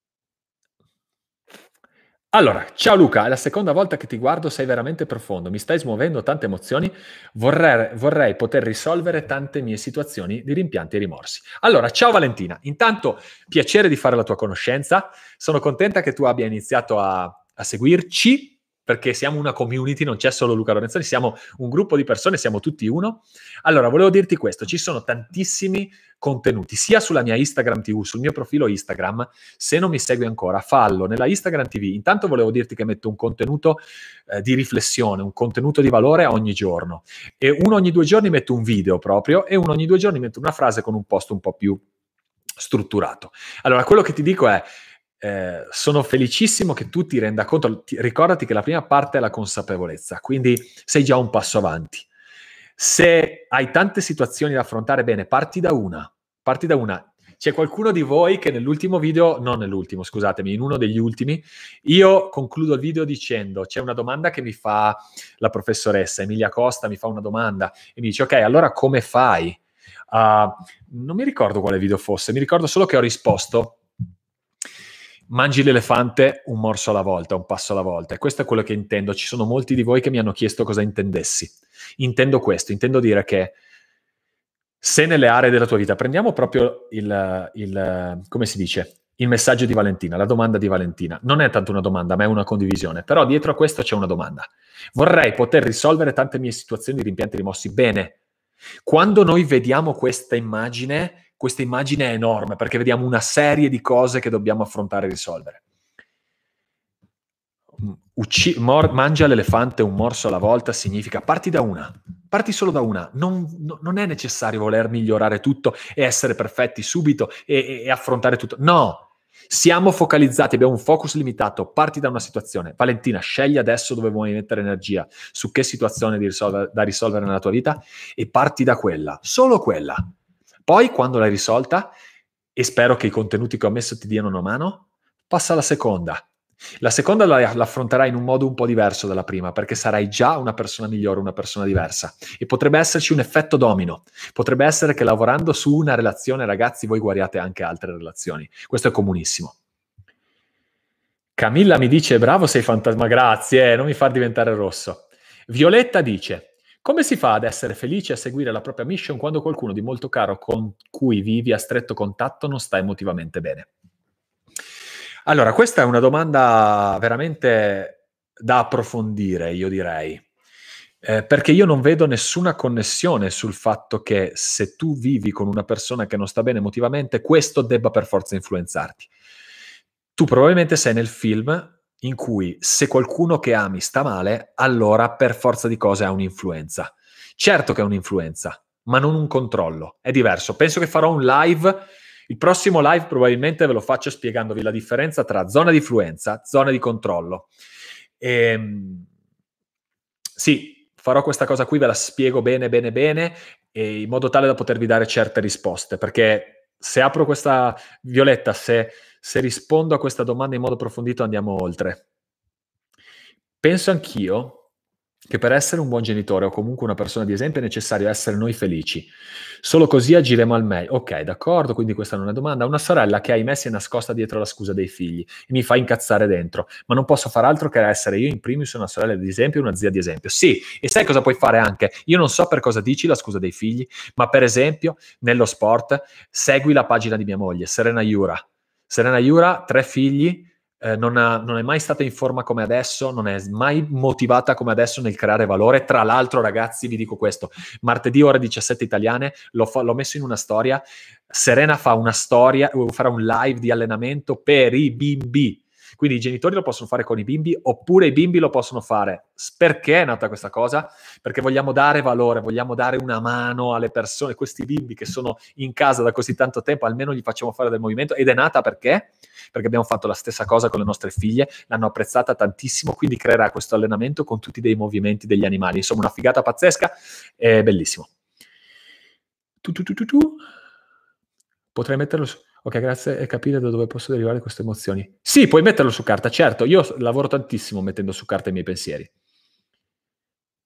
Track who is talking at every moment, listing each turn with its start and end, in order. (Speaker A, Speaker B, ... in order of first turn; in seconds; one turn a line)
Speaker A: 2.3-41.8
Speaker A: 42.6-44.7
Speaker A: 45.2-52.1
Speaker A: 52.8-69.6
Speaker A: 70.1-73.8
Speaker A: 75.3-83.6
Speaker A: 84.8-98.2
Speaker A: 98.8-105.6
Speaker A: 107.8-130.1
Speaker A: 130.7-131.9
Speaker A: 132.6-136.3
Speaker A: 136.8-149.6
Speaker A: 151.3-163.7
Speaker A: 165.2-170.2
Speaker A: 171.0-179.1
Speaker A: 180.2-197.5
Speaker A: 198.2-199.1
Speaker A: 200.4-212.0
Speaker A: 213.6-214.6
Speaker A: 215.3-278.1
Speaker A: 279.6-280.4
Speaker A: 281.7-289.1